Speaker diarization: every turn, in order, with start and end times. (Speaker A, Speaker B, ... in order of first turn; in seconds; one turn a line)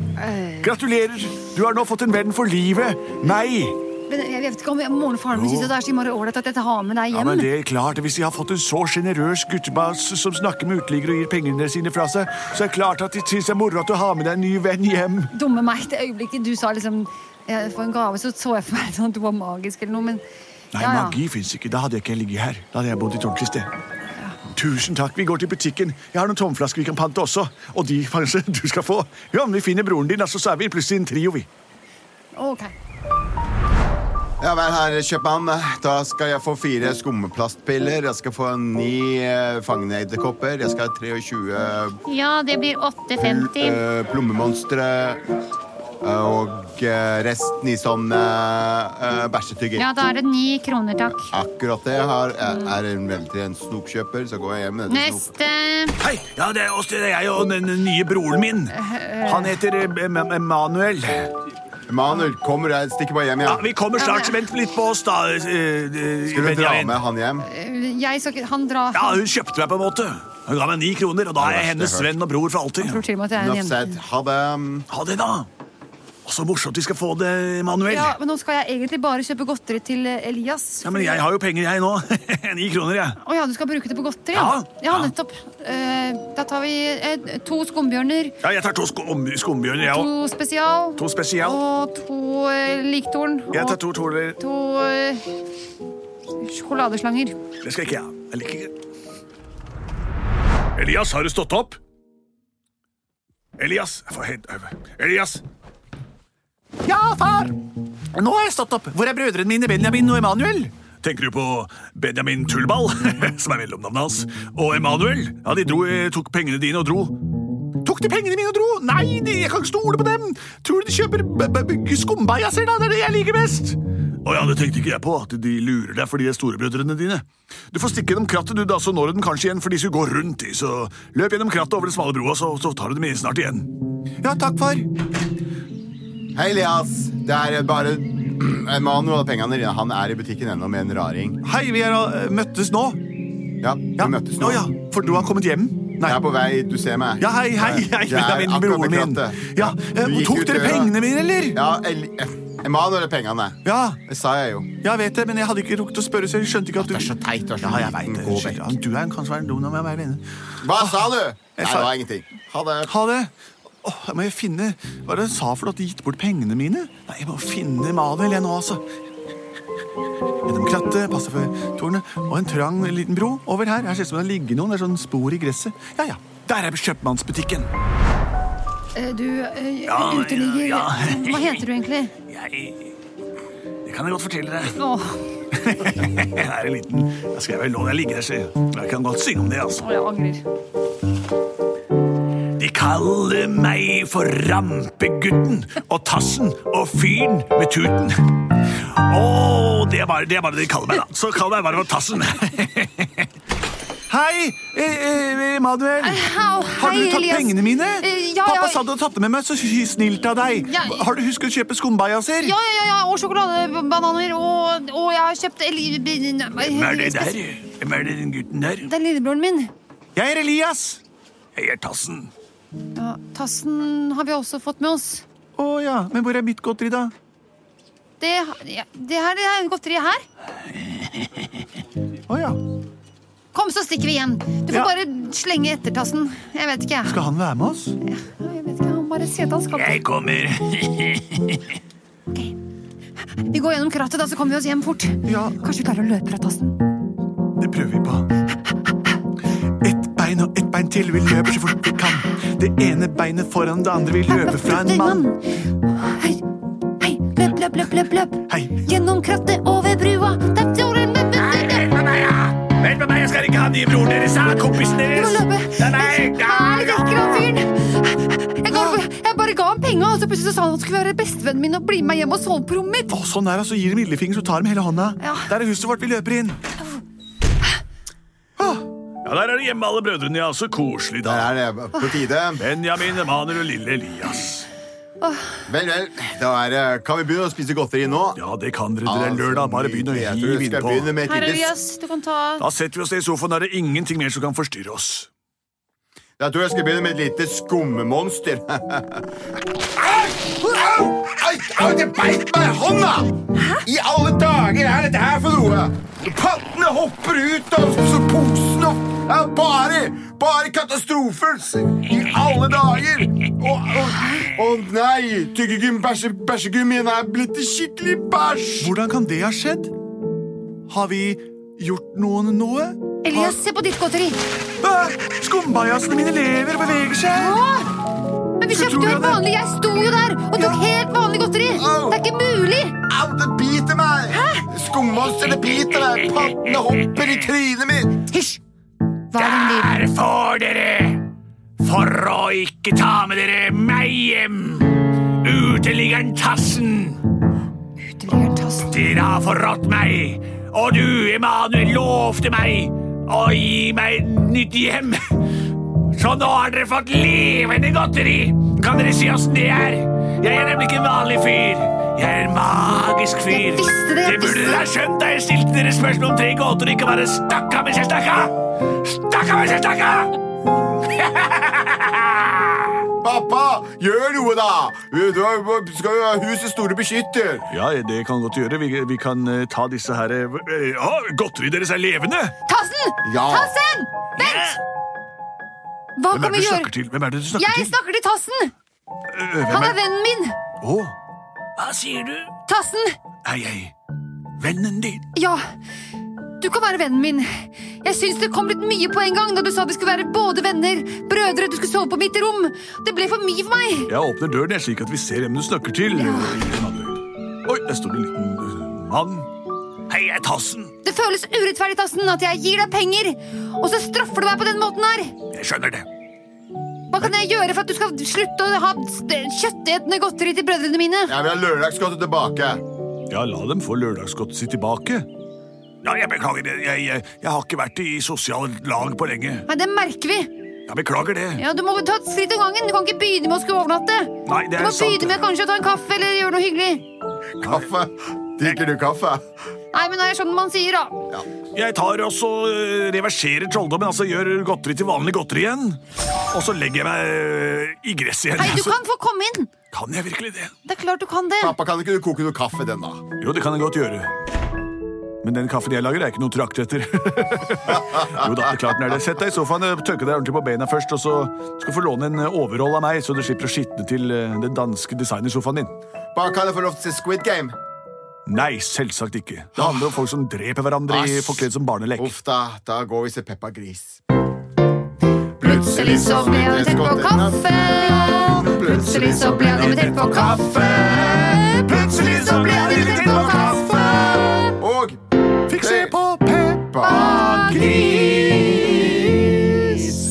Speaker A: 0.2-0.7
Speaker B: 0.6-3.8
Speaker A: 4.1-7.5
Speaker B: 5.3-5.7
Speaker B: 7.1-15.3
Speaker A: 15.3-20.2
Speaker B: 20.7-23.7
Speaker A: 20.8-21.2
Speaker B: 24.5-31.5
Speaker A: 32.3-32.7
Speaker C: 34.4-42.0
Speaker A: 42.0-43.8
Speaker C: 43.2-45.2
Speaker C: 46.0-49.9
Speaker A: 49.8-51.3
Speaker C: 51.3-55.3
Speaker A: 54.9-56.0
Speaker B: 56.0-61.3
Speaker A: 58.7-59.6
Speaker C: 61.9-63.6
Speaker B: 63.4-67.0
Speaker A: 64.0-64.5
Speaker C: 66.3-67.5
Speaker A: 67.4-69.2
Speaker B: 68.9-73.0
Speaker C: 71.4-72.1
Speaker A: 72.8-73.8
Speaker C: 73.3-74.9
Speaker B: 74.9-75.5
Speaker B: 76.2-78.2
Speaker A: 77.8-81.2
Speaker B: 80.8-83.2
Speaker A: 83.2-88.3
Speaker B: 84.3-85.1
Speaker B: 88.4-90.1
Speaker A: 89.8-95.2
Speaker B: 91.0-91.6
Speaker B: 93.5-94.4
Speaker A: 96.4-97.3
Speaker B: 97.6-98.7
Speaker B: 100.7-101.8
Speaker B: 103.6-105.4
Speaker B: 106.8-107.6
Speaker B: 108.1-117.2
Speaker B: 117.8-134.9
Speaker C: 136.3-141.4
Speaker B: 141.4-143.0
Speaker C: 143.6-144.7
Speaker B: 144.0-146.2
Speaker C: 146.0-150.9
Speaker B: 147.2-151.6
Speaker C: 151.5-154.7
Speaker B: 153.6-154.0
Speaker B: 154.8-161.9
Speaker C: 156.8-158.8
Speaker C: 160.6-162.9
Speaker B: 162.9-168.8
Speaker B: 170.4-177.7
Speaker A: 178.9-182.1
Speaker B: 179.8-181.6
Speaker B: 182.3-182.9
Speaker B: 183.8-184.8
Speaker A: 184.7-185.3
Speaker B: 185.5-189.9
Speaker A: 189.8-190.4
Speaker B: 192.5-203.3
Speaker B: 204.1-212.5
Speaker A: 206.0-208.8
Speaker A: 210.6-211.1
Speaker A: 212.4-217.4
Speaker B: 216.6-218.9
Speaker A: 218.8-219.7
Speaker B: 220.1-221.0
Speaker B: 221.5-222.3
Speaker A: 222.9-225.2
Speaker B: 225.6-227.1
Speaker A: 228.2-230.2
Speaker B: 232.3-232.6
Speaker A: 233.5-237.2
Speaker B: 237.0-238.0
Speaker A: 238.0-240.0
Speaker B: 239.7-241.6
Speaker A: 243.5-246.8
Speaker B: 245.2-245.6
Speaker B: 247.6-248.3
Speaker B: 249.7-255.2
Speaker A: 254.2-256.4
Speaker A: 257.0-261.9
Speaker B: 258.5-258.8
Speaker B: 261.3-267.4
Speaker A: 264.8-273.1
Speaker B: 268.7-269.0
Speaker B: 273.1-276.6
Speaker A: 275.2-275.5
Speaker B: 278.6-281.5
Speaker C: 281.2-282.6
Speaker B: 282.6-284.7
Speaker A: 285.2-285.4
Speaker C: 285.7-288.4
Speaker B: 288.3-291.2
Speaker C: 289.0-291.7
Speaker A: 291.2-292.6
Speaker B: 292.6-295.3
Speaker C: 296.4-299.2
Speaker C: 300.0-318.9
Speaker A: 314.2-314.5
Speaker B: 318.8-319.9
Speaker B: 320.9-323.6
Speaker A: 323.2-324.4
Speaker B: 324.8-327.6
Speaker A: 327.2-327.9
Speaker A: 328.6-332.9
Speaker B: 328.7-329.4
Speaker C: 331.7-332.2
Speaker C: 333.1-338.2
Speaker A: 334.3-334.6
Speaker B: 335.9-337.4
Speaker A: 338.3-338.6
Speaker A: 339.3-340.0
Speaker B: 339.4-341.2
Speaker B: 341.8-347.2
Speaker A: 348.1-348.9
Speaker B: 348.9-355.4
Speaker B: 355.9-370.4
Speaker A: 363.5-364.9
Speaker B: 371.0-372.9
Speaker C: 373.2-377.7
Speaker B: 377.7-382.5
Speaker A: 382.6-384.8
Speaker C: 383.2-383.7
Speaker B: 384.4-384.8
Speaker A: 386.2-386.9
Speaker B: 386.3-387.9
Speaker A: 387.6-388.7
Speaker B: 389.3-390.0
Speaker A: 389.7-390.6
Speaker B: 390.8-391.1
Speaker B: 391.8-392.5
Speaker A: 392.7-393.1
Speaker B: 393.4-393.9
Speaker B: 394.6-395.2
Speaker A: 395.3-395.6
Speaker A: 396.6-404.1
Speaker B: 404.1-409.5
Speaker A: 406.1-406.7
Speaker B: 410.1-410.9
Speaker A: 411.0-415.3
Speaker B: 415.5-416.1
Speaker A: 417.1-421.3
Speaker C: 421.3-422.8
Speaker B: 423.3-425.3
Speaker B: 426.0-429.7
Speaker A: 429.7-430.5
Speaker B: 430.9-431.6
Speaker A: 431.6-437.1
Speaker B: 434.4-435.4
Speaker B: 437.6-437.9
Speaker C: 437.6-439.4
Speaker A: 439.9-441.1
Speaker B: 441.7-448.9
Speaker A: 448.6-449.7
Speaker B: 449.9-450.7
Speaker A: 450.9-451.7
Speaker C: 451.6-453.2
Speaker B: 453.4-454.3
Speaker B: 455.4-465.9
Speaker C: 457.9-458.8
Speaker C: 466.3-467.7
Speaker B: 468.4-472.3
Speaker C: 469.8-470.1
Speaker C: 471.1-474.2
Speaker C: 475.6-480.2
Speaker A: 475.6-484.7
Speaker B: 479.7-484.8
Speaker C: 481.9-483.7
Speaker C: 484.8-485.1
Speaker B: 485.7-489.6
Speaker C: 485.7-486.1
Speaker C: 486.9-487.4
Speaker A: 487.0-490.1
Speaker C: 488.9-489.8